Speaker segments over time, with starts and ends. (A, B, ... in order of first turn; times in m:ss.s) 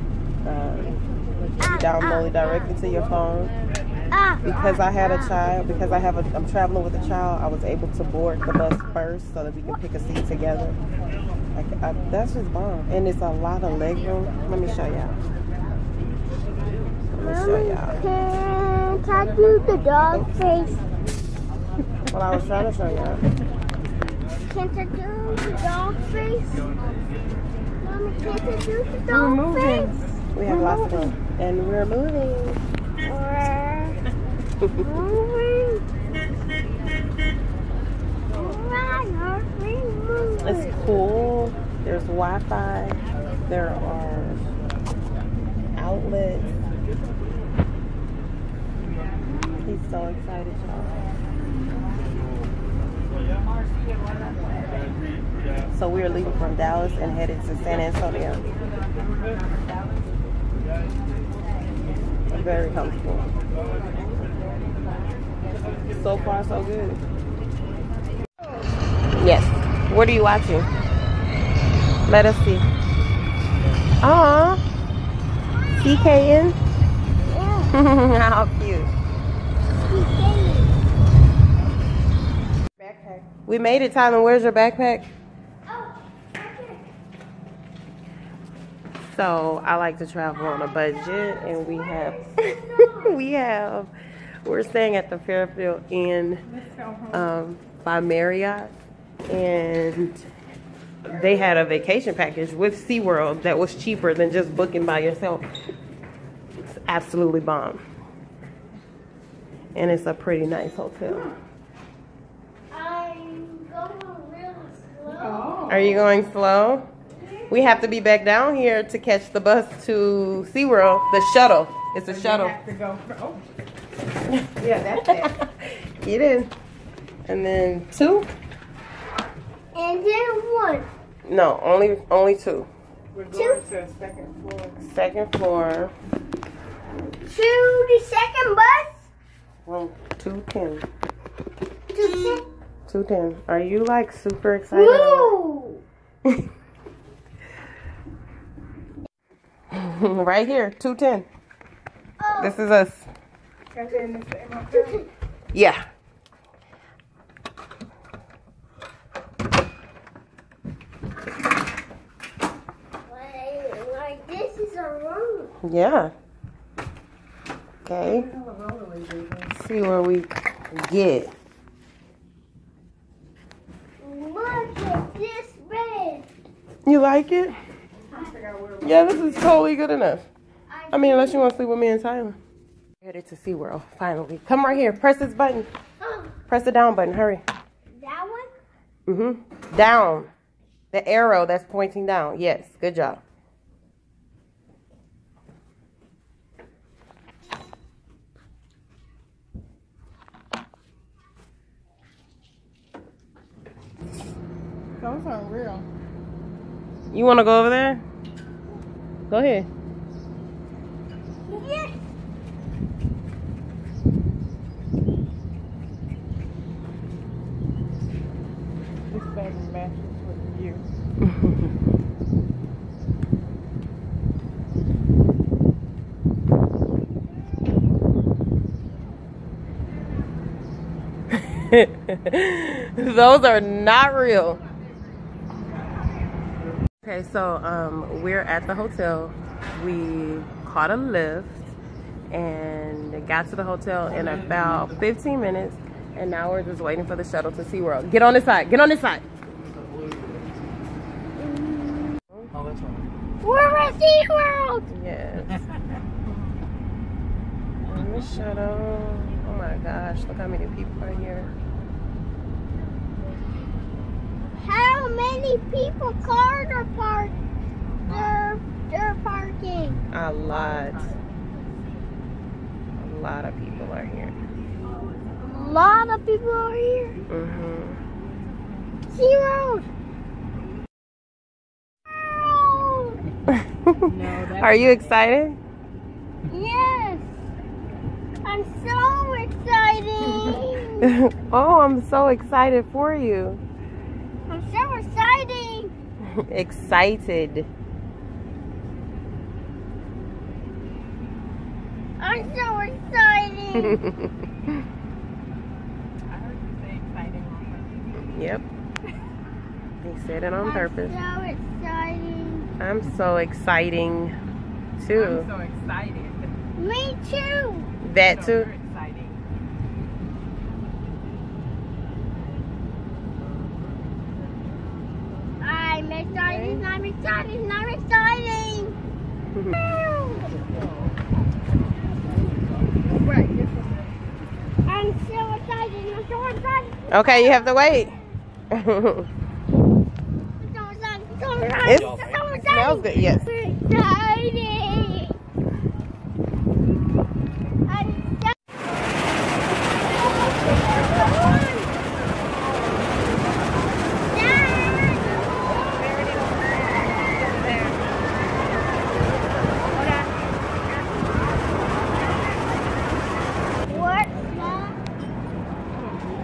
0:00.4-0:00.9 A
0:01.6-0:02.7 B
0:01.7-0:03.5 A
0:04.1-0:05.4 B
0:04.4-0:10.8 A
0:11.6-0:15.2 A
0:17.1-0:18.0 A
0:17.2-0:20.8 B
0:22.1-0:23.2 A
0:24.5-0:26.6 B
0:27.8-0:29.9 B
0:29.1-0:32.6 A
0:30.4-0:31.1 B
0:33.0-0:34.0 B
0:34.8-0:35.8 B
0:38.3-0:40.8 B
0:40.4-0:44.4 A
0:45.8-0:46.6 A
0:49.6-0:51.0 A
0:55.8-0:58.4 A
1:02.3-1:03.3 A
1:06.0-1:07.0 A
1:09.2-1:10.7 A
1:12.1-1:12.6 A
1:14.0-1:14.6 A
1:15.8-1:16.1 B
1:15.8-1:16.6 A
1:17.3-1:17.7 B
1:17.7-1:18.9 A
1:19.8-1:20.8 B
1:22.8-1:23.3 C
1:23.5-1:25.1 A
1:25.7-1:26.8 B
1:29.1-1:33.9 A
1:30.6-1:33.2 B
1:34.4-1:36.4 A
1:36.5-1:37.3 C
1:37.1-1:38.7 A
1:39.3-1:40.2 A
1:41.1-1:45.4 A
1:46.7-1:47.8 A
1:49.8-1:51.3 A
1:52.7-1:55.6 B
1:55.1-1:56.0 C
1:55.7-1:56.9 A
1:57.2-1:57.8 B
1:57.5-2:02.6 A
2:02.0-2:03.4 C
2:04.6-2:05.3 C
2:05.0-2:06.5 A
2:07.3-2:08.3 A
2:09.8-2:10.9 B
2:11.3-2:12.7 A
2:13.1-2:14.9 C
2:13.3-2:13.6 B
2:14.9-2:15.9 A
2:17.3-2:19.1 B
2:19.7-2:20.8 A
2:21.9-2:22.4 B
2:22.9-2:25.3 A
2:24.7-2:25.8 B
2:29.7-2:31.3 A
2:32.2-2:32.6 B
2:32.4-2:33.1 A
2:33.7-2:35.1 C
2:34.7-2:35.0 B
2:35.5-2:35.8 A
2:43.0-2:45.6 B
2:45.6-2:46.1 A
2:47.8-2:48.3 A
2:48.0-2:49.5 C
2:49.5-2:51.3 A
2:54.0-2:56.3 B
2:56.9-2:57.6 A
2:58.1-2:59.6 C
2:58.8-3:00.3 A
3:00.7-3:01.5 B
3:00.9-3:02.4 A
3:03.0-3:05.7 A
3:06.0-3:06.3 B
3:06.5-3:07.4 A
3:07.9-3:08.5 B
3:09.1-3:10.3 A
3:10.9-3:13.2 A
3:25.0-3:25.9 C
3:27.1-3:28.0 A
3:29.3-3:29.7 A
3:31.5-3:32.0 B
3:39.1-3:40.8 C
3:41.3-3:41.6 A
3:51.3-3:54.6 A
3:57.0-4:01.7 A
4:02.3-4:09.2 A
4:11.4-4:12.2 B
4:13.4-4:14.9 B
4:14.9-4:15.6 A
4:17.9-4:21.5 A
4:24.6-4:27.4 B
4:28.0-4:30.0 B
4:30.1-4:31.1 A
4:30.3-4:31.2 C
4:33.0-4:34.4 A
4:35.5-4:37.2 B
4:37.3-4:38.0 A
4:39.1-4:39.9 B
4:42.1-4:43.2 B
4:43.5-4:45.6 A
4:44.1-4:45.1 C
4:46.5-4:47.4 B
4:48.4-4:51.1 B
4:51.0-4:53.6 A
4:54.5-4:55.9 B
4:56.2-4:57.7 A
5:02.2-5:04.0 B
5:03.8-5:04.8 A
5:06.3-5:08.1 C
5:08.3-5:08.6 A
5:10.0-5:11.1 A
5:10.6-5:12.7 B
5:12.8-5:14.3 A
5:15.0-5:15.5 A
5:15.1-5:16.5 C
5:16.8-5:17.9 B
5:18.0-5:18.7 A
5:18.2-5:19.4 C
5:25.6-5:29.0 B
5:26.4-5:26.8 C
5:29.8-5:30.6 B
5:33.0-5:34.1 C
5:34.9-5:38.2 B
5:37.1-5:38.2 A
5:38.7-5:39.3 A
5:40.6-5:45.4 B
5:41.8-5:43.5 A
5:47.9-5:48.6 B
5:50.0-5:51.9 B
5:54.3-5:55.4 B
5:57.4-5:57.9 B
5:59.9-6:00.3 B
6:00.9-6:01.3 B
6:03.8-6:05.0 B